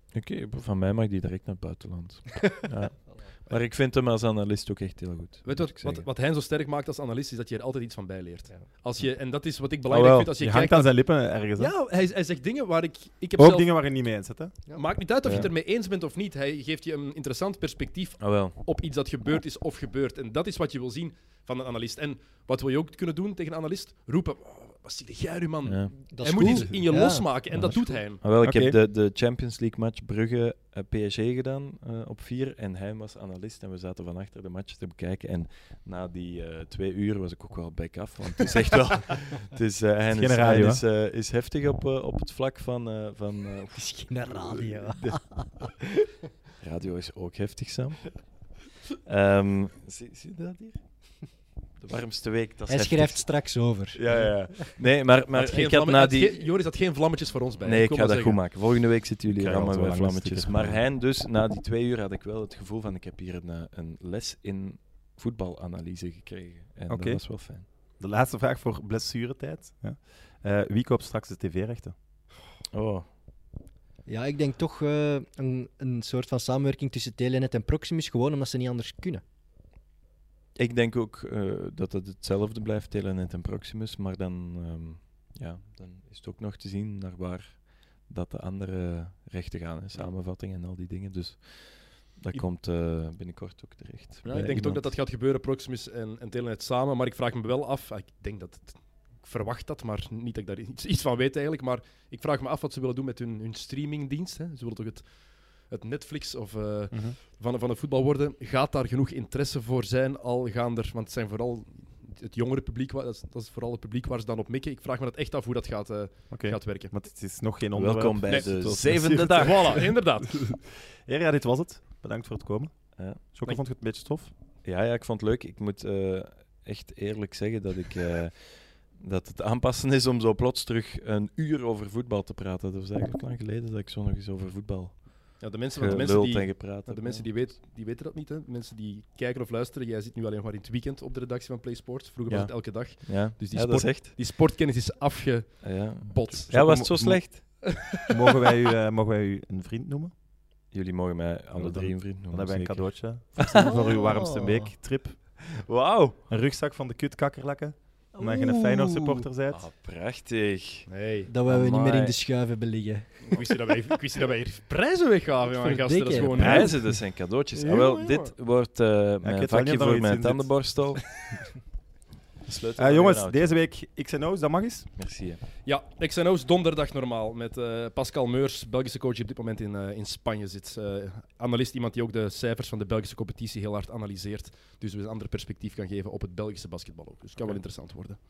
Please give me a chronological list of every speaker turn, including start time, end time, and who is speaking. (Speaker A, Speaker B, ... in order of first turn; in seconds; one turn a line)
Speaker A: 0.1-6.1
Speaker B: 5.4-10.9
Speaker C: 9.9-11.7
Speaker B: 11.5-13.7
Speaker C: 13.3-14.5
Speaker B: 14.7-28.2
Speaker A: 18.2-18.6
Speaker A: 25.6-25.9
Speaker D: 26.1-28.0
Speaker A: 27.5-45.2
Speaker C: 28.4-28.8
Speaker C: 40.1-40.8
Speaker D: 43.7-45.8
Speaker A: 46.6-48.3
Speaker A: 49.0-50.8
Speaker A: 51.8-53.3
Speaker D: 52.7-54.7
Speaker A: 53.9-56.5
Speaker B: 55.3-58.4
Speaker A: 57.6-67.7
Speaker C: 59.3-60.8
Speaker C: 66.9-67.2
Speaker C: 68.0-71.9
Speaker A: 72.7-73.0
Speaker D: 74.0-79.2
Speaker A: 80.5-94.9
Speaker B: 94.2-116.9
Speaker C: 116.3-124.3
Speaker A: 117.7-119.9
Speaker B: 118.3-120.4
Speaker A: 124.6-137.5
Speaker B: 135.4-146.5
Speaker C: 142.3-142.5
Speaker A: 143.0-144.2
Speaker A: 145.6-147.6
Speaker C: 146.5-150.1
Speaker B: 147.7-148.1
Speaker A: 150.7-153.7
Speaker C: 151.5-155.2
Speaker D: 153.6-154.7
Speaker A: 155.4-156.2
Speaker C: 156.3-159.6
Speaker D: 158.2-159.3
Speaker A: 159.5-160.9
Speaker B: 160.9-161.3
Speaker D: 161.3-163.5
Speaker A: 161.4-162.2
Speaker B: 163.2-166.8
Speaker D: 165.6-166.7
Speaker A: 166.3-171.2
Speaker C: 166.3-166.8
Speaker B: 167.6-168.3
Speaker C: 169.2-170.5
Speaker A: 172.4-173.5
Speaker C: 172.8-174.9
Speaker A: 175.0-175.4
Speaker B: 175.6-188.2